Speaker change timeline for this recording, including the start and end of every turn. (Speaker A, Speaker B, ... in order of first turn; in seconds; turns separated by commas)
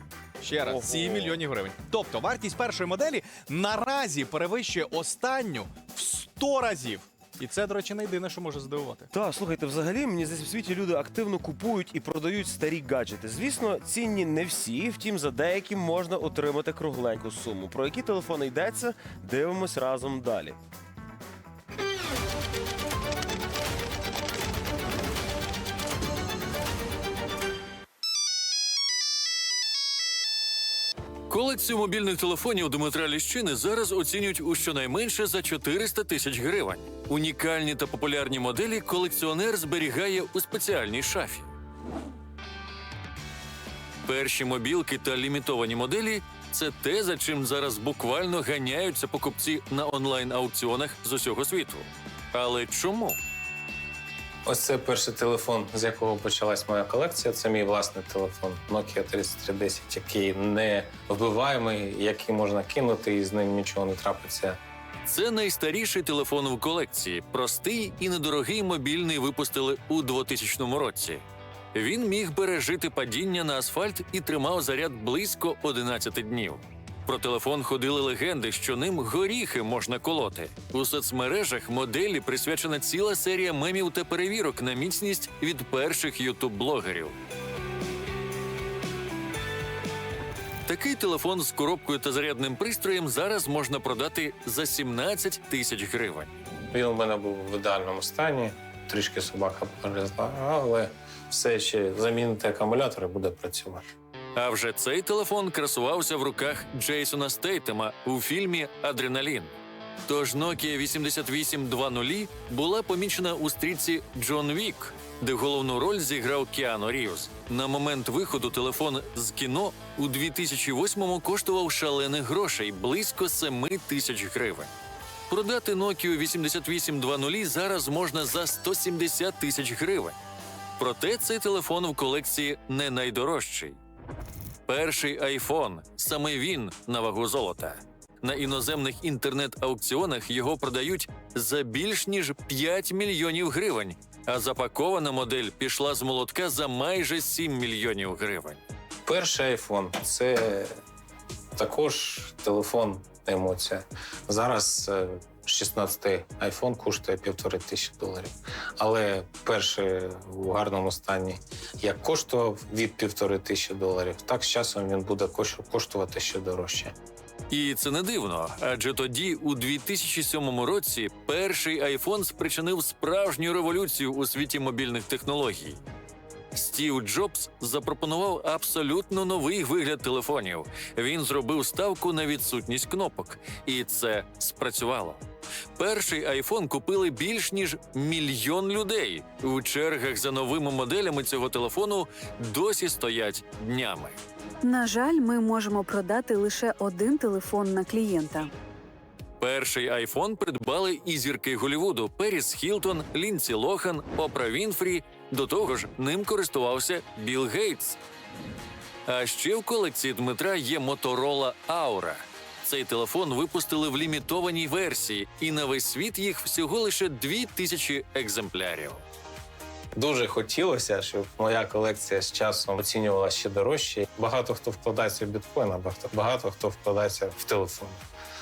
Speaker A: 0.4-9.1, Speaker B: 0.6-1.4, Speaker B: 9.1-20.6, Speaker C: 31.3-41.5, Speaker C: 44.0-53.2, Speaker D: 54.5-64.6, Speaker C: 65.0-71.2, Speaker C: 71.7-87.2, Speaker C: 90.7-96.3, Speaker D: 96.7-103.8, Speaker C: 104.3-109.5, Speaker C: 110.0-124.7, Speaker C: 125.3-130.2, Speaker C: 130.8-133.8, Speaker C: 134.7-148.6, Speaker D: 149.1-150.7, Speaker D: 151.6-166.9, Speaker C: 167.5-175.8, Speaker C: 176.5-185.2, Speaker C: 185.8-194.2, Speaker E: 194.6-198.5, Speaker C: 199.4-208.0, Speaker C: 209.1-219.0, Speaker D: 219.9-228.0